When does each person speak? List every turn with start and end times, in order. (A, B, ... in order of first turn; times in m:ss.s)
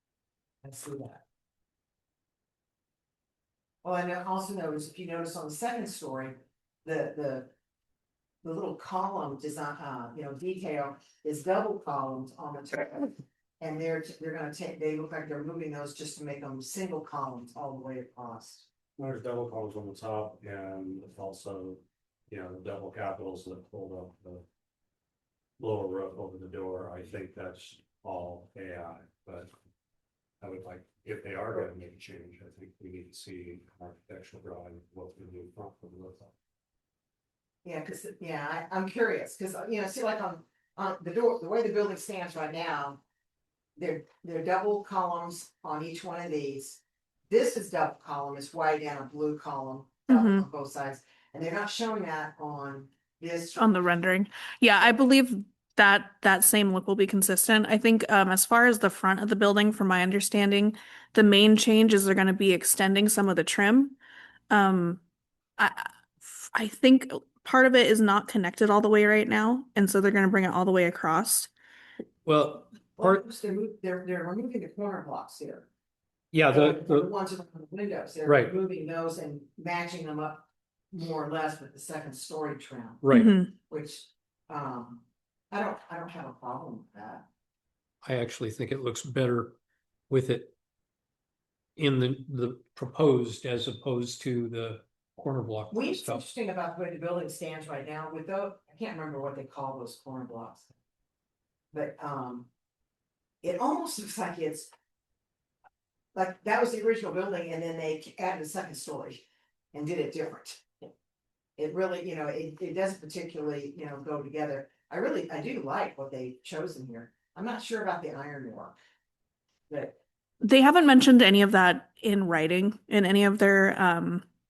0:00.6-0:01.2 A
0:03.8-0:07.5 A
0:08.4-0:18.7 A
0:19.0-0:24.4 B
0:25.6-0:29.5 B
0:30.4-0:36.3 B
0:37.6-0:43.0 A
0:43.8-0:53.9 A
0:50.1-0:50.4 C
0:53.6-1:04.0 C
1:04.5-1:05.0 C
1:05.6-1:11.5 C
1:12.2-1:13.2 D
1:13.0-1:15.7 A
1:16.3-1:17.1 D
1:16.5-1:23.1 A
1:18.2-1:18.5 D
1:23.0-1:23.4 D
1:23.1-1:23.5 C
1:23.7-1:27.2 A
1:28.0-1:29.5 D
1:30.1-1:30.5 D
1:31.8-1:36.2 D
1:35.7-1:40.7 A
1:41.7-1:42.5 A
1:43.4-1:44.7 A
1:46.1-1:50.8 A
1:51.6-1:58.8 A
1:59.7-2:00.0 A
2:00.4-2:04.2 C